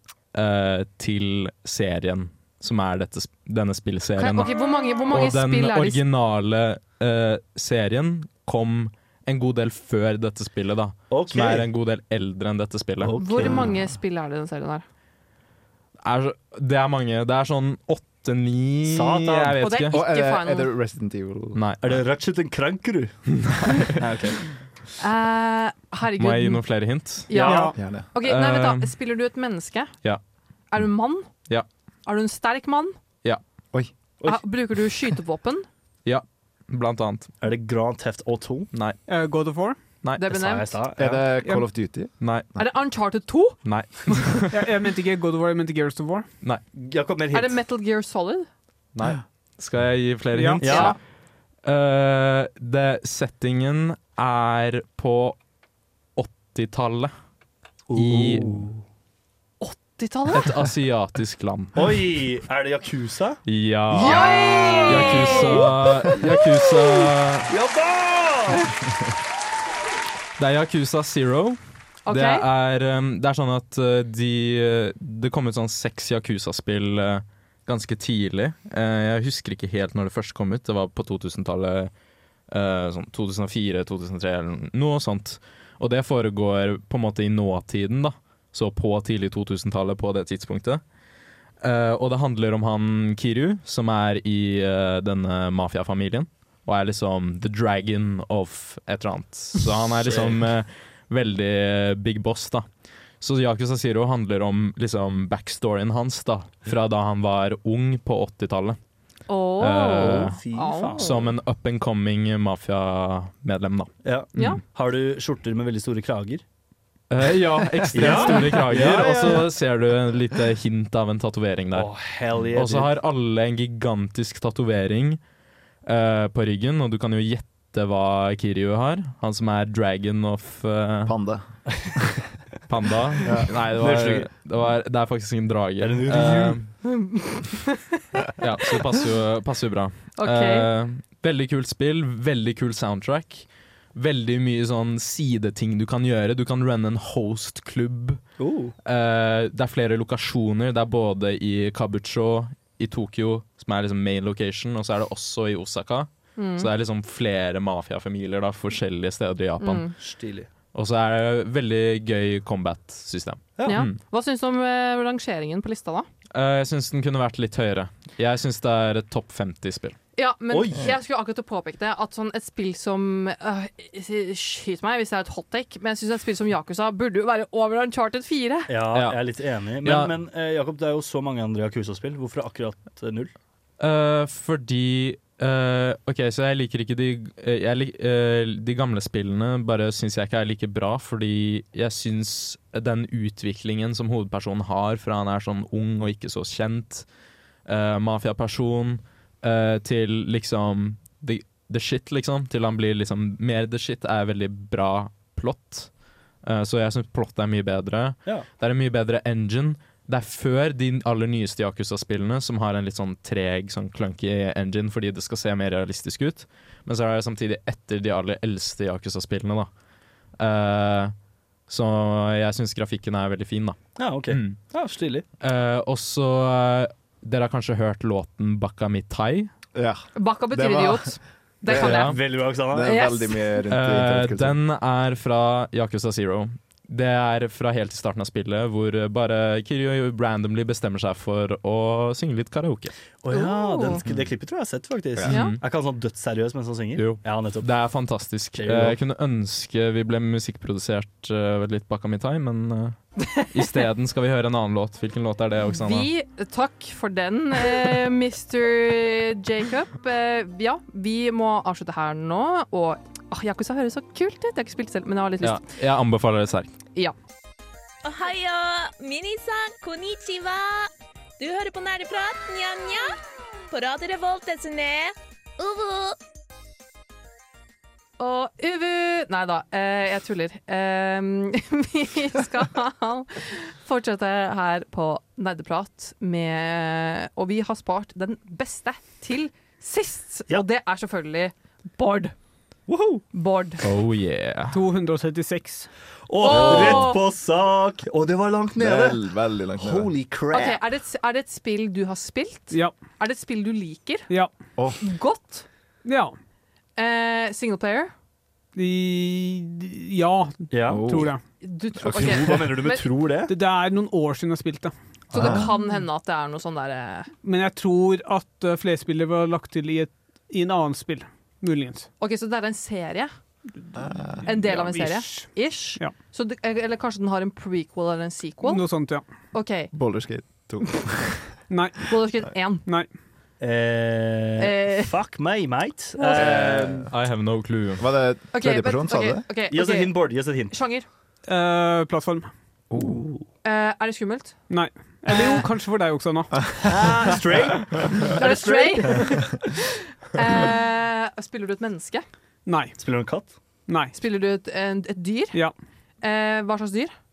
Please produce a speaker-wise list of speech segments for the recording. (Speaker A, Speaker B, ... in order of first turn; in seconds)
Speaker A: 0.3-13.4, 16.0-20.0, 21.5-22.0, 23.3-24.0, 26.2-27.3, 28.1-28.9, 36.0-37.3, 38.7-39.0, 40.0-40.3, 42.2-42.5, 43.6-44.6, 48.9-51.0, 51.6-55.4, 56.1-57.1, 57.9-58.6, 60.3-61.9, 63.4-64.3, 64.8-67.5, 70.4-81.9, 82.5-90.8, 91.6-102.7, 103.2-108.8, 109.6-110.4, 111.0-114.6, 117.1-122.0, 122.5-125.2, 125.8-131.1, 132.7-136.7, 138.4-148.2, 148.8-159.9, 160.7-164.0, 166.3-170.0, 178.9-179.2, 179.8-180.1, 183.8-197.1, 197.7-205.9, 206.4-219.7, 220.4-221.1, 221.7-223.8, 224.3-224.6, 225.4-229.5, 231.8-232.2, 233.7-242.9, 245.2-245.6, 246.9-253.0, 253.5-256.1, 265.4-266.7, 293.8-294.8, 337.1-338.0
Speaker B: 4.2-6.0, 13.2-14.8, 19.6-20.7, 25.0-26.7, 27.3-29.9, 30.7-31.3, 32.0-33.0, 34.2-35.6, 40.2-40.7, 42.6-44.3, 47.3-48.5, 50.6-51.0, 59.6-60.5, 64.0-65.7, 72.0-72.4, 109.3-111.1, 114.3-114.6, 136.8-138.0, 140.2-140.7, 156.4-156.7, 159.6-159.9, 163.7-166.1, 170.2-178.7, 230.1-233.6, 243.3-244.0, 245.3-245.6, 253.2-253.7, 255.7-265.6, 278.2-292.3, 293.3-293.8, 296.4-297.2, 300.5-304.3, 305.0-305.6, 307.0-308.1, 311.6-313.0, 315.3-317.3, 322.2-323.3, 324.4-328.9, 329.5-329.9, 332.1-332.8, 334.6-335.1, 336.2-336.4, 338.5-341.1, 343.6-344.6, 345.3-345.6, 348.3-349.7, 350.3-352.2, 354.1-355.6, 356.2-357.1
Speaker C: 11.1-11.7, 13.0-13.7, 18.8-19.6, 21.8-23.2, 24.0-24.4, 27.3-27.8, 37.4-38.7, 40.3-41.3, 46.7-47.6, 50.6-51.0, 57.9-58.8, 61.7-66.9, 67.5-68.7, 100.0-100.4, 110.0-111.4, 114.0-116.4, 117.9-119.5, 121.7-122.9, 133.7-134.3, 135.8-136.6, 148.4-148.7, 160.0-160.5, 163.6-163.8, 170.5-170.9, 178.7-183.3, 224.0-225.2, 231.7-233.1, 243.2-247.7, 248.6-249.0, 292.9-293.2, 296.3-300.8, 310.7-311.3, 312.1-313.5, 333.6-337.1, 339.7-340.7, 342.9-343.4, 346.8-349.4, 353.0-353.5
Speaker D: 19.9-21.6, 27.7-28.1, 41.0-42.2, 131.1-132.0, 133.2-133.5, 229.7-231.2, 231.7-234.6, 298.8-300.1, 310.9-311.3, 312.0-312.7, 315.3-315.7, 323.9-324.4, 329.9-331.5, 336.4-337.1, 338.0-339.5, 342.9-343.2
Speaker E: 27.4-27.7, 39.1-39.8, 44.5-46.3, 50.3-50.6, 294.7-295.9, 306.0-306.3, 308.8-311.4, 313.5-314.9, 317.4-322.1, 324.4-326.1, 328.6-329.2, 331.7-332.0, 341.5-342.5, 344.7-346.6, 352.6-353.0, 353.9-354.1
Speaker F: 268.0-273.2, 273.7-276.2